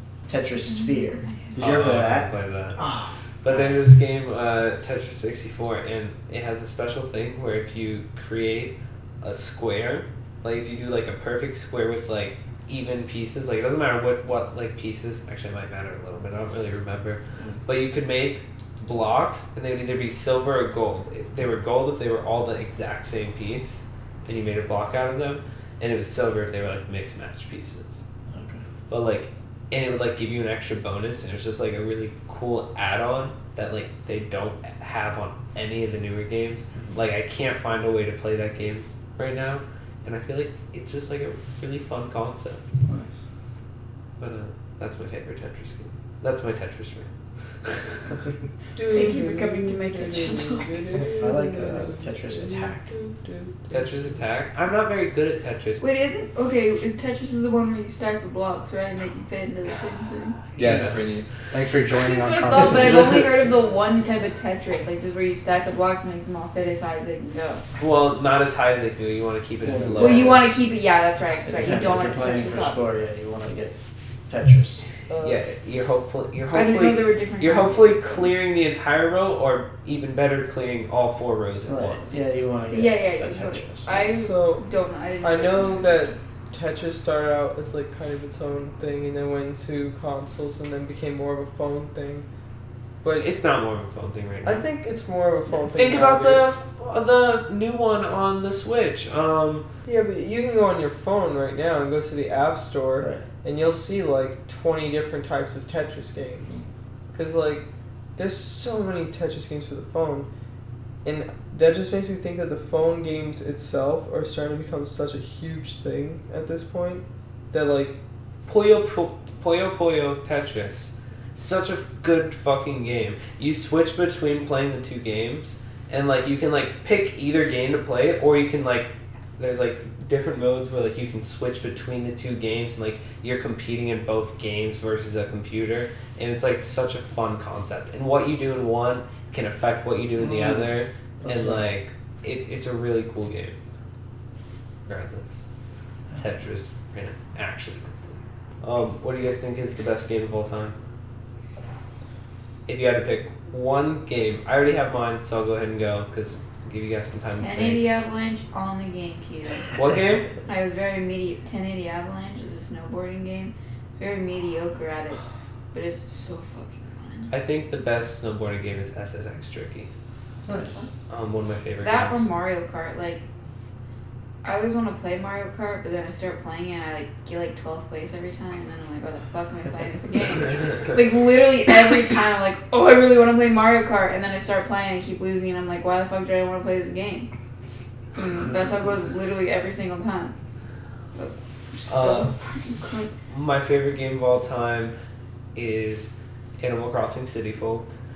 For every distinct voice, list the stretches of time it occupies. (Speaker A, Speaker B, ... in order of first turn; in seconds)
Speaker A: 0.3-3.8, 28.3-28.6, 36.7-37.0, 42.8-43.2, 51.2-52.9, 69.6-70.5, 71.4-73.7, 74.3-74.8, 81.7-84.1, 103.0-103.2, 140.2-141.7, 170.4-170.9
Speaker B: 0.7-1.6, 48.9-51.1, 55.8-60.4, 61.9-67.6, 70.0-72.8, 76.5-78.3, 82.7-86.1, 157.4-159.7, 160.4-165.2, 165.7-167.3, 170.6-170.9, 171.8-173.2, 174.4-187.3, 188.1-190.3, 191.1-193.1
Speaker C: 1.6-2.8, 3.4-28.0, 28.9-42.6, 44.2-47.1, 47.6-48.1, 53.7-55.8, 60.5-61.2, 67.8-70.6, 75.2-82.2, 93.1-94.6, 95.7-99.7, 118.5-143.6, 144.8-145.4, 146.2-150.8, 152.7-157.8, 159.7-160.3, 167.3-169.9, 171.1-172.3, 191.9-192.3, 193.3-194.9, 195.5-197.8
Speaker D: 48.8-54.2, 75.1-75.4, 83.9-84.6, 85.2-92.2, 94.4-96.6, 99.8-106.6, 107.1-107.6, 108.2-110.3, 111.0-118.0
Speaker E: 60.5-63.2